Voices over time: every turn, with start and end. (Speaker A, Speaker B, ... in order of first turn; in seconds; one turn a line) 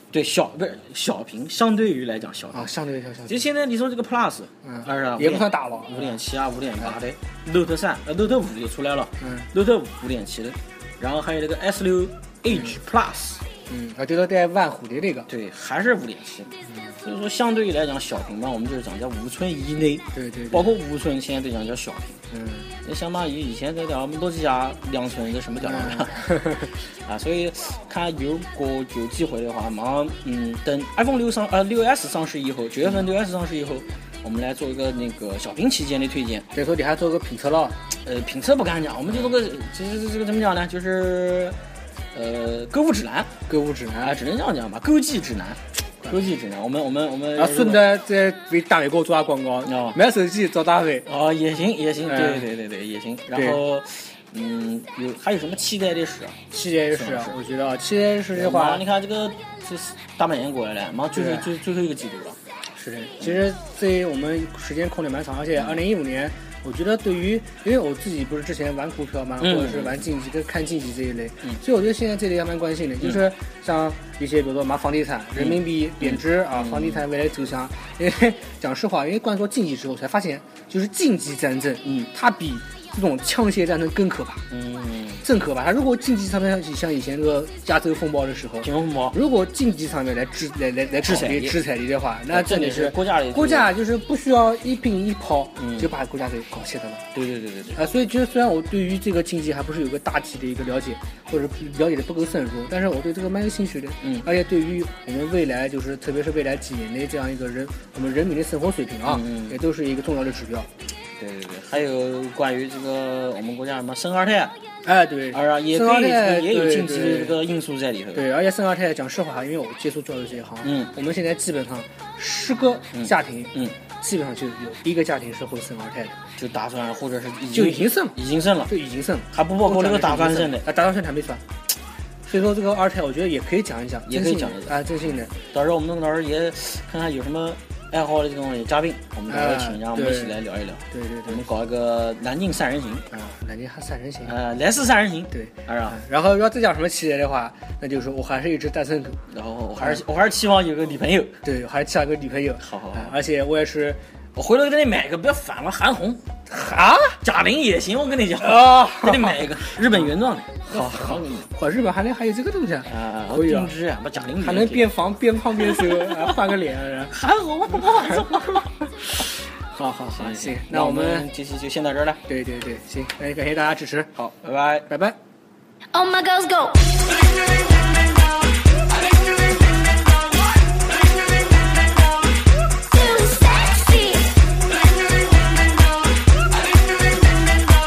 Speaker A: 0.1-2.7
Speaker B: 2.5-3.4
Speaker A: 3.2-13.4
Speaker B: 4.6-6.2
Speaker B: 9.2-9.5
Speaker B: 12.5-12.7
Speaker B: 13.7-15.3
Speaker A: 15.3-22.2
Speaker B: 16.7-16.9
Speaker B: 20.1-20.7
Speaker B: 22.3-22.7
Speaker A: 22.8-36.5
Speaker B: 25.6-26.7
Speaker B: 36.5-37.8
Speaker A: 38.0-41.6
Speaker A: 42.1-43.3
Speaker B: 43.5-44.1
Speaker A: 44.0-47.8
Speaker B: 47.4-51.1
Speaker A: 49.6-50.0
Speaker A: 51.0-56.4
Speaker B: 52.0-52.5
Speaker B: 53.3-53.6
Speaker B: 56.5-58.8
Speaker A: 56.9-57.3
Speaker A: 58.3-62.4
Speaker B: 61.1-61.5
Speaker B: 62.8-84.4
Speaker A: 69.4-70.0
Speaker A: 75.4-77.0
Speaker A: 84.5-85.2
Speaker B: 85.2-97.0
Speaker A: 88.6-89.2
Speaker A: 91.0-91.6
Speaker A: 92.3-93.7
Speaker A: 95.6-95.9
Speaker A: 97.1-97.8
Speaker B: 97.8-110.7
Speaker A: 104.0-104.3
Speaker A: 109.0-109.6
Speaker A: 111.2-114.5
Speaker B: 114.8-117.4
Speaker A: 115.3-118.3
Speaker B: 118.1-126.2
Speaker A: 120.6-120.9
Speaker A: 122.9-123.8
Speaker A: 126.3-128.7
Speaker B: 127.5-131.4
Speaker A: 129.3-130.7
Speaker B: 132.2-135.3
Speaker A: 134.1-143.1
Speaker B: 139.3-141.4
Speaker B: 143.1-144.3
Speaker A: 144.2-146.0
Speaker B: 145.3-149.2
Speaker A: 149.3-151.4
Speaker B: 151.4-154.0
Speaker A: 152.6-153.2
Speaker A: 154.3-156.2
Speaker B: 156.5-157.2
Speaker A: 157.2-161.5
Speaker B: 158.4-159.6
Speaker B: 160.6-163.7
Speaker A: 162.8-164.9
Speaker B: 164.4-167.2
Speaker A: 165.6-166.5
Speaker A: 167.1-168.7
Speaker B: 167.8-168.6
Speaker B: 169.2-171.3
Speaker A: 170.1-172.2
Speaker B: 172.3-174.1
Speaker A: 174.2-174.9
Speaker B: 174.9-175.2
Speaker C: 175.9-176.9
Speaker C: 182.9-184.3